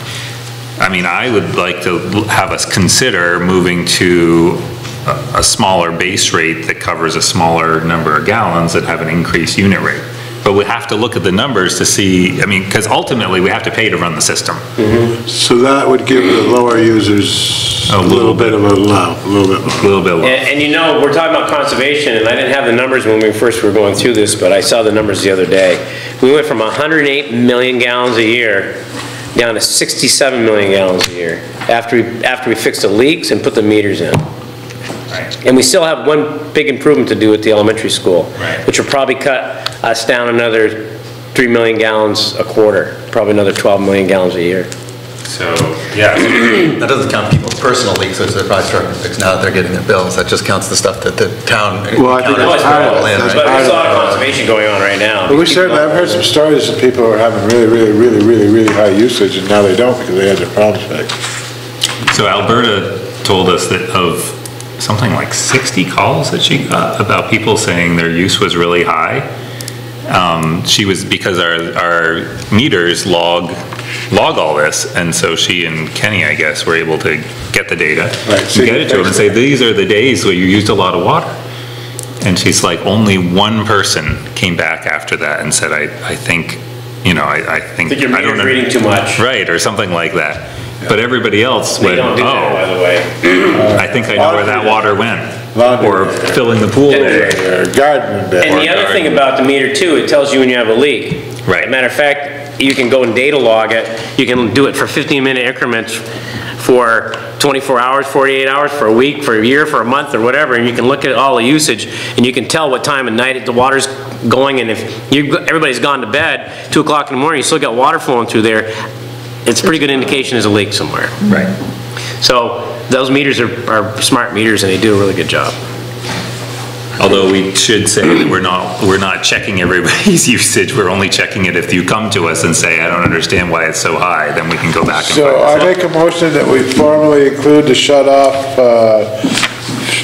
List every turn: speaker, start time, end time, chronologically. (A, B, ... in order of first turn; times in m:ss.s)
0:00.8-0:14.6 A
0:14.8-0:15.0 B
0:15.1-0:19.9 C
0:17.9-0:18.6 A
0:19.7-0:20.4 A
0:20.2-0:28.8 B
0:29.3-0:34.2 B
0:35.4-0:44.7 B
0:38.4-0:38.6 A
0:45.2-0:46.6 A
0:46.3-0:54.1 D
0:51.9-0:54.0 C
0:52.2-0:56.2 B
0:55.3-1:01.2 C
1:02.1-1:09.3 A
1:10.1-1:13.5 A
1:14.1-1:21.3 A
1:18.2-1:19.3 C
1:22.2-1:32.6 A
1:27.9-1:29.2 B
1:31.8-1:33.6 B
1:33.4-1:37.4 A
1:33.5-1:35.0 C
1:35.5-1:38.7 C
1:36.9-1:37.4 B
1:38.4-1:46.0 B
1:38.5-1:39.1 A
1:41.4-1:41.7 A
1:46.6-1:58.7 B
1:59.4-2:01.1 B
2:01.2-2:01.5 A
2:02.2-2:05.6 B
2:07.0-2:15.7 A
2:15.0-2:19.4 C